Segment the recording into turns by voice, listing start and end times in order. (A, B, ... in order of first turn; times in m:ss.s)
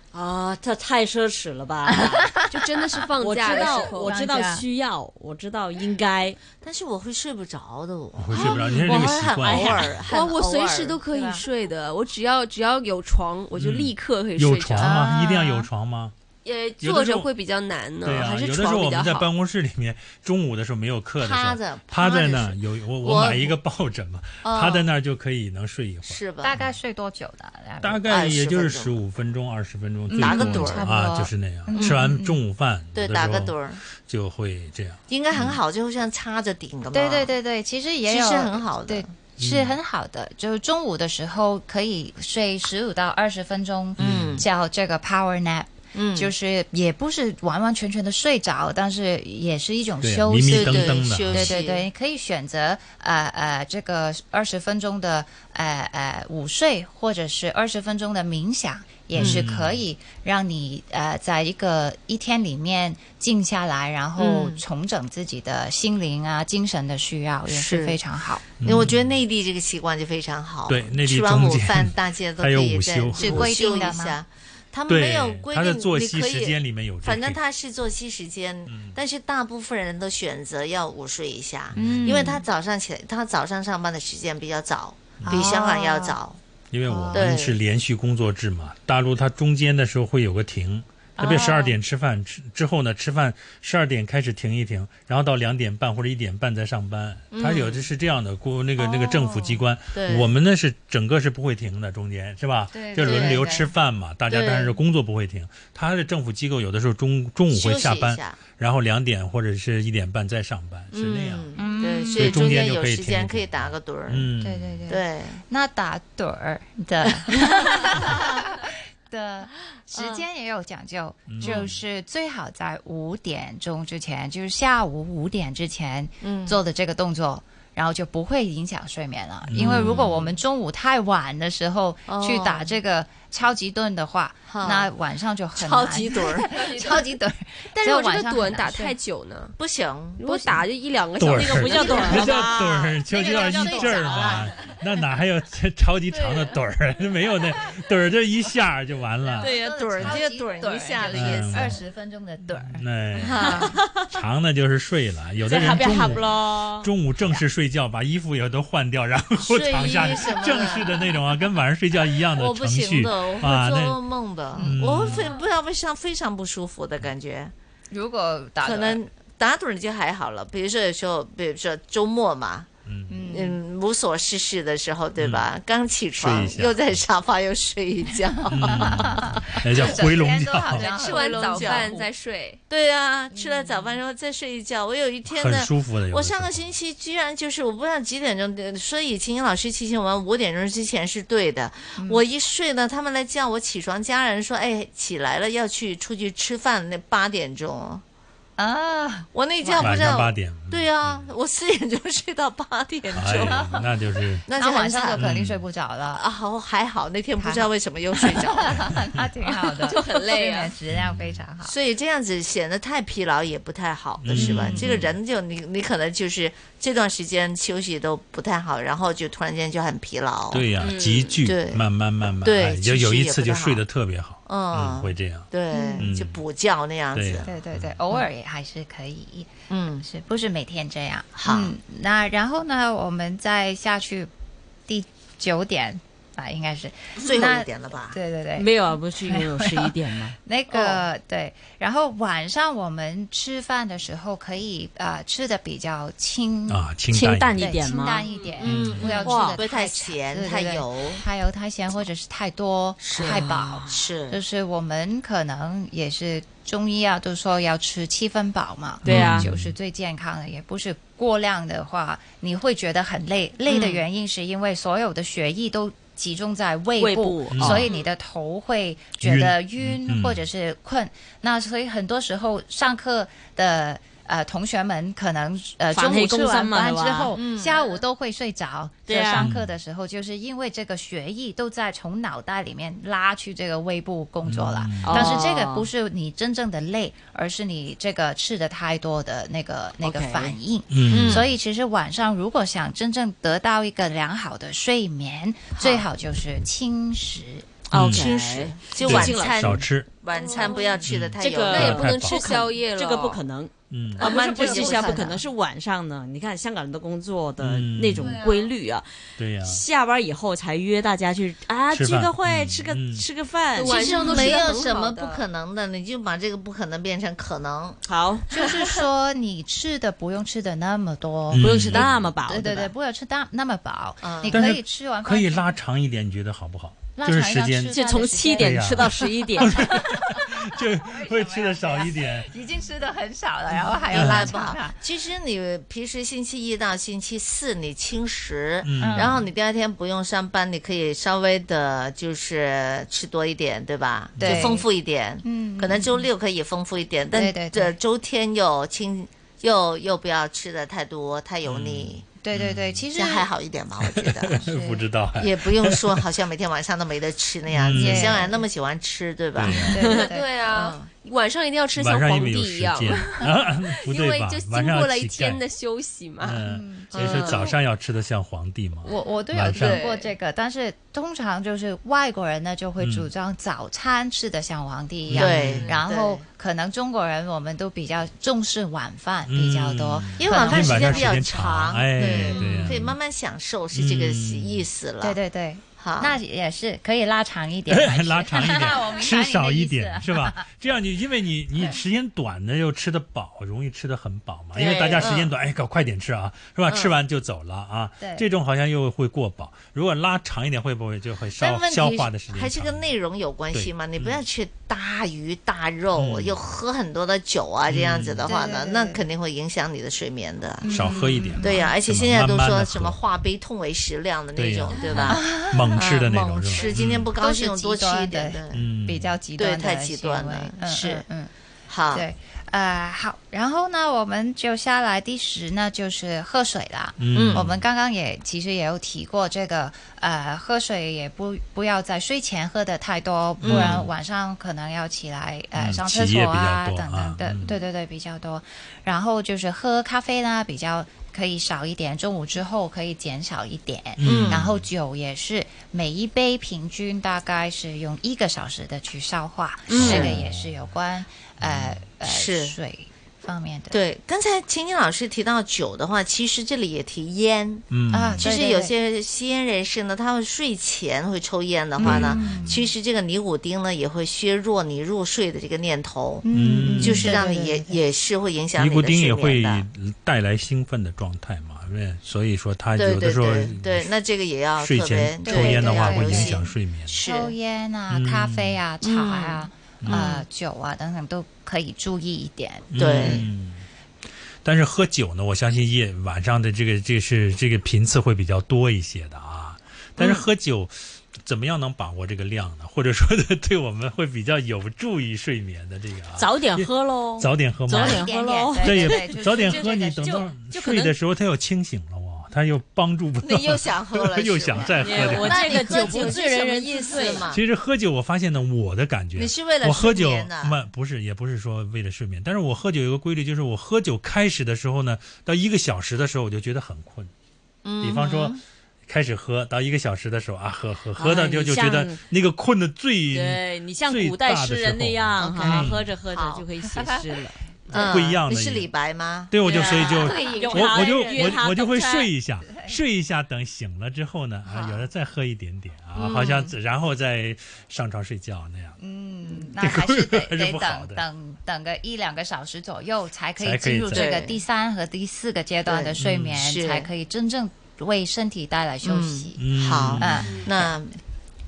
0:00.1-0:02.5 A
0:01.9-0:02.5 B
0:02.5-0:04.2 C
0:03.2-0:06.4 A
0:03.4-0:04.6 B
0:06.6-0:11.0 D
0:08.2-0:10.1 E
0:08.4-0:08.7 C
0:09.5-0:09.8 A
0:10.1-0:15.0 C
0:11.1-0:11.4 B
0:13.5-0:16.1 E
0:14.8-0:15.7 B
0:16.4-0:19.3 C
0:16.8-0:17.3 E
0:18.0-0:26.7 E
0:21.2-0:23.6 D
0:24.4-0:24.9 D
0:26.1-0:26.6 D
0:26.4-0:28.1 B
0:27.8-0:35.6 E
0:28.1-0:29.0 D
0:30.1-0:32.4 B
0:30.2-0:30.9 D
0:31.8-0:32.0 D
0:32.9-0:33.8 D
0:35.1-0:37.3 D
0:36.9-1:08.5 B
0:38.1-0:39.1 D
0:39.4-0:39.8 E
0:44.0-0:44.5 D
0:44.0-0:44.5 E
0:45.9-0:46.3 D
0:50.0-0:51.6 E
0:50.5-0:51.9 D
0:59.1-0:59.8 E
0:59.2-0:59.4 D
1:04.2-1:04.6 D
1:07.5-1:08.0 D
1:08.6-1:09.2 E
1:08.6-1:26.4 D
1:10.7-1:13.8 E
1:13.2-1:14.2 B
1:14.9-1:17.4 E
1:18.7-1:19.0 E
1:21.7-1:22.3 E
1:21.8-1:22.4 B
1:25.2-1:25.6 E
1:25.3-1:26.2 B
1:26.7-1:51.5 E
1:26.9-1:27.3 B
1:27.1-1:27.6 D
1:31.2-1:31.8 B
1:37.3-1:37.9 D
1:38.8-1:39.6 B
1:39.9-1:40.3 D
1:42.7-1:43.7 B
1:43.0-1:43.4 D
1:44.3-1:44.8 D
1:47.5-1:48.4 D
1:50.9-1:54.3 D
1:51.6-1:52.6 B
1:52.1-1:54.8 E
1:54.4-2:19.0 B
1:54.9-1:55.4 D
1:59.9-2:00.2 D
2:01.3-2:01.8 E
2:01.4-2:01.7 D
2:06.2-2:06.6 D
2:09.5-2:10.0 E
2:09.6-2:10.4 D
2:12.1-2:12.7 D
2:14.5-2:14.9 D
2:15.6-2:17.0 D
2:17.7-2:19.6 C
2:19.6-2:20.2 D
2:20.2-2:22.3 C
2:20.2-2:20.6 B
2:21.2-2:30.2 E
2:21.3-2:24.5 A
2:21.8-2:24.5 B
2:29.2-2:32.8 B
2:29.4-2:29.7 A
2:29.4-2:31.8 D
2:31.1-2:31.8 E
2:32.5-2:44.0 E
2:33.2-2:33.7 D
2:33.4-2:33.7 B
2:33.6-2:34.1 A
2:35.5-2:36.9 A
2:35.6-2:36.1 B
2:39.4-2:41.1 D
2:42.3-2:47.5 D
2:44.6-2:45.3 B
2:44.6-2:45.3 E
2:47.9-2:49.0 B
2:48.6-2:52.7 D
2:52.9-2:53.3 E
2:53.1-2:53.6 B
2:53.3-2:59.8 D
2:55.2-2:55.5 E
2:56.2-2:57.0 E
2:58.5-3:00.9 E
2:58.5-3:02.0 B
3:00.8-3:02.6 C
3:00.8-3:02.0 D
3:02.7-3:18.0 D
3:03.3-3:04.0 B
3:05.3-3:06.8 E
3:12.0-3:12.2 B
3:18.6-3:20.1 B
3:19.3-3:23.8 D
3:19.8-3:21.3 E
3:23.1-3:24.4 E
3:23.4-3:23.8 B
3:24.5-3:25.4 D
3:24.6-3:26.2 B
3:25.2-3:25.6 E
3:26.1-3:28.9 D
3:27.4-3:27.7 B
3:28.2-3:31.7 B
3:29.8-3:30.7 C
3:30.9-3:31.4 E
3:31.6-3:40.7 D
3:34.2-3:35.2 E
3:34.3-3:35.0 B
3:40.5-3:46.4 E
3:40.8-3:41.4 A
3:41.4-3:41.8 D
3:42.4-3:43.8 D
3:44.5-3:47.5 D
3:45.7-3:46.1 B
3:47.1-3:48.0 E
3:47.4-3:54.3 B
3:49.7-3:50.0 D
3:51.4-3:51.7 D
3:54.9-4:06.8 B
3:57.2-3:58.2 D
3:58.6-4:00.4 A
4:00.7-4:01.0 D
4:06.7-4:07.7 E
4:07.1-4:08.3 A
4:07.6-4:57.7 B
4:08.6-4:11.2 D
4:08.6-4:09.2 E
4:09.0-4:09.6 A
4:13.0-4:14.4 D
4:13.2-4:13.9 A
4:19.0-4:19.8 E
4:19.1-4:19.5 A
4:23.7-4:24.0 D
4:27.0-4:27.9 A
4:27.5-4:27.9 E
4:29.2-4:30.5 E
4:35.9-4:37.4 A
4:37.3-4:38.0 D
4:39.1-4:39.5 A
4:39.3-4:39.8 E
4:44.5-4:45.4 E
4:45.0-4:45.9 A
4:50.0-4:50.6 A
4:50.9-4:51.5 E
4:51.1-4:51.4 D
4:55.8-4:56.0 D
4:57.9-4:59.8 A
4:57.9-4:58.3 E
4:58.0-5:02.2 D
4:59.0-5:00.1 E
5:00.5-5:00.8 C
5:01.1-5:02.4 E
5:01.4-5:09.1 A
5:01.7-5:03.4 C
5:03.9-5:04.3 E
5:04.2-5:05.4 D
5:04.3-5:05.4 B
5:07.6-5:08.4 E
5:09.4-5:09.8 E
5:09.6-5:14.6 A
5:11.9-5:13.3 E
5:13.8-5:15.4 C
5:13.8-5:18.0 D
5:14.2-5:14.6 B
5:18.0-5:18.5 A
5:18.5-5:25.7 B
5:21.5-5:22.3 E
5:21.6-5:22.9 A
5:24.2-5:24.7 D
5:24.5-5:28.0 E
5:27.2-5:35.0 B
5:27.9-5:29.9 A
5:28.6-5:32.5 E
5:33.7-5:52.3 D
5:34.1-5:34.6 E
5:38.8-5:39.4 E
5:39.0-5:39.4 B
5:44.4-5:44.8 E
5:44.4-5:44.9 B
5:45.4-5:46.3 B
5:47.3-5:48.0 B
5:51.6-5:53.0 E
5:52.4-5:53.5 B
5:53.1-5:54.6 D
5:54.0-5:56.3 E
5:54.6-5:55.1 B
5:55.4-5:59.9 D
5:57.7-5:58.5 E
5:57.9-5:58.6 B
5:59.6-6:00.1 E
5:59.9-6:00.5 B
6:00.0-6:00.3 A
6:00.0-6:06.6 C
6:00.7-6:01.1 D
6:02.0-6:05.6 E
6:06.4-6:10.0 E
6:06.6-6:07.3 B
6:07.1-6:07.7 D
6:07.2-6:07.7 C
6:09.0-6:21.4 B
6:09.7-6:10.3 C
6:13.0-6:13.3 E
6:15.3-6:15.9 E
6:15.3-6:16.4 D
6:19.5-6:23.2 E
6:20.4-6:25.4 D
6:22.2-6:23.0 B
6:23.9-6:24.9 E
6:25.2-6:30.7 B
6:26.0-6:26.4 D
6:27.9-6:43.1 E
6:34.8-6:35.2 A
6:34.8-6:35.5 D
6:36.9-6:37.1 D
6:38.2-6:38.5 B
6:41.6-6:58.9 D
6:43.7-6:44.4 E
6:46.2-6:46.6 E
6:47.9-6:48.5 E
6:48.5-6:49.2 B
6:50.8-6:51.9 B
6:50.9-6:53.2 E
6:54.6-6:57.3 E
6:55.2-6:56.0 B
6:57.4-7:01.5 B
6:58.7-6:59.4 E
6:59.6-7:01.2 D
7:01.9-7:02.3 D
7:02.1-7:34.0 B
7:07.2-7:07.8 E
7:07.3-7:07.7 D
7:13.6-7:14.1 D
7:13.6-7:14.1 E
7:15.8-7:17.8 E
7:24.2-7:24.8 E
7:24.2-7:24.7 D
7:29.9-7:30.3 A
7:29.9-7:30.9 E
7:30.0-7:30.3 D
7:31.6-7:32.0 E
7:32.2-7:32.8 D
7:33.9-7:46.4 D
7:37.9-7:38.4 E
7:38.1-7:38.9 B
7:42.0-7:42.8 B
7:42.0-7:42.9 E
7:46.4-7:48.0 B
7:46.5-7:47.4 E
7:47.0-7:49.8 D
7:48.8-7:54.1 E
7:53.0-7:57.5 D
7:54.8-7:57.2 E
7:55.4-7:56.6 B
7:57.2-8:03.4 B
7:58.1-7:58.8 E
7:59.0-8:00.4 D
8:00.0-8:00.3 E
8:02.9-8:03.9 E
8:03.0-8:03.4 D
8:04.6-8:25.8 E
8:16.4-8:21.1 A
8:17.9-8:20.4 B
8:23.4-8:27.6 D
8:25.0-8:27.5 A
8:27.5-8:37.3 E
8:29.4-8:30.8 D
8:37.8-8:38.6 D
8:38.0-8:46.1 E
8:41.2-8:42.2 A
8:43.3-8:48.0 A
8:45.4-8:46.7 D
8:47.9-8:50.6 D
8:47.9-8:48.9 E
8:49.5-8:59.0 E
8:49.6-8:52.3 A
8:50.3-8:50.7 B
8:52.7-8:53.0 B
8:54.7-8:55.0 D
8:56.2-8:56.7 D
8:59.0-9:10.9 B
8:59.8-9:01.3 E
9:03.6-9:04.3 E
9:04.1-9:04.6 D
9:05.9-9:07.1 D
9:06.2-9:06.6 E
9:09.0-9:11.2 D
9:09.6-9:10.7 E